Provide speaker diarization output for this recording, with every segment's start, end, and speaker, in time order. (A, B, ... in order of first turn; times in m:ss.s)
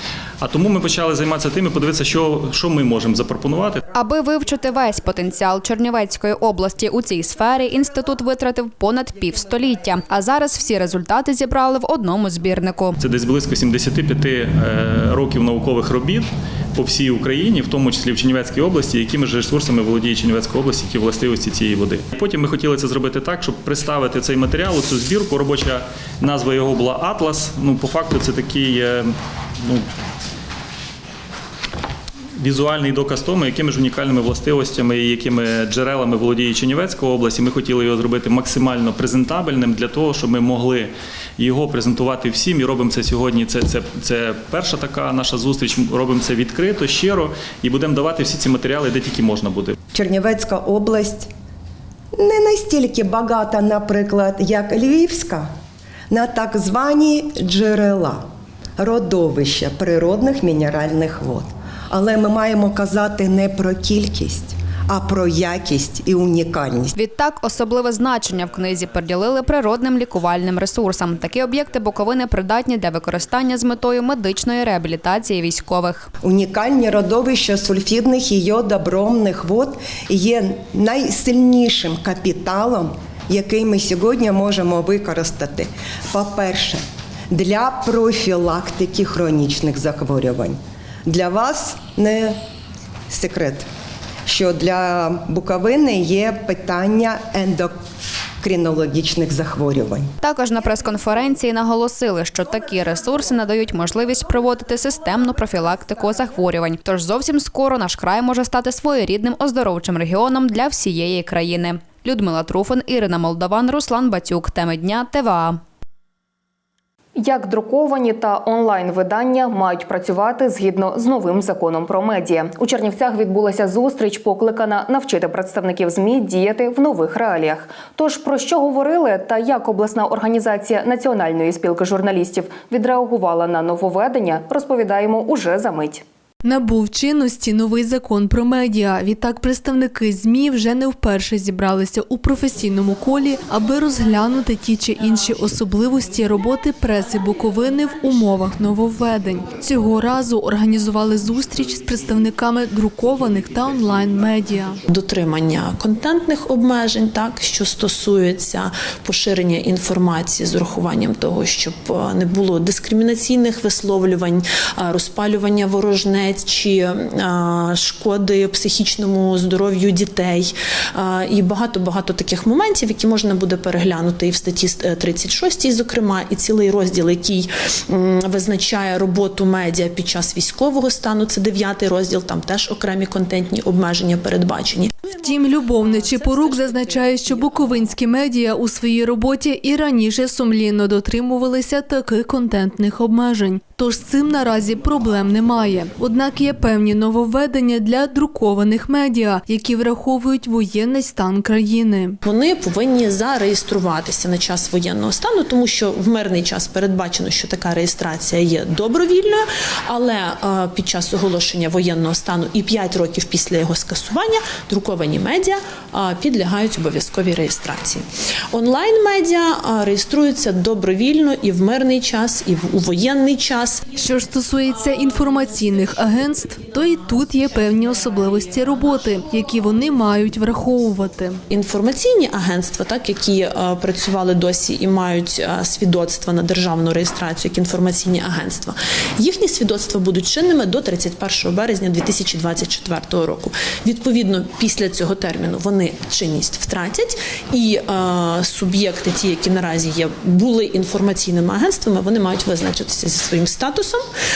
0:00.4-0:03.8 A
0:03.9-0:13.0 B
0:13.0-0:29.1 A
0:32.4-0:49.7 A
0:49.9-0:51.3 C
0:52.2-0:55.5 C
0:56.1-0:58.2 C
0:58.8-1:06.9 C
1:07.0-1:16.1 B
1:16.2-1:32.4 C
1:33.1-1:33.7 C
1:34.2-1:37.7 C
1:38.4-1:40.1 C
1:40.2-1:55.6 B
1:57.1-2:16.0 D
2:16.4-2:34.8 E
2:34.9-3:07.5 F
3:05.1-3:22.2 E
3:22.2-3:43.8 F
3:43.9-3:51.4 E
3:51.5-4:14.0 F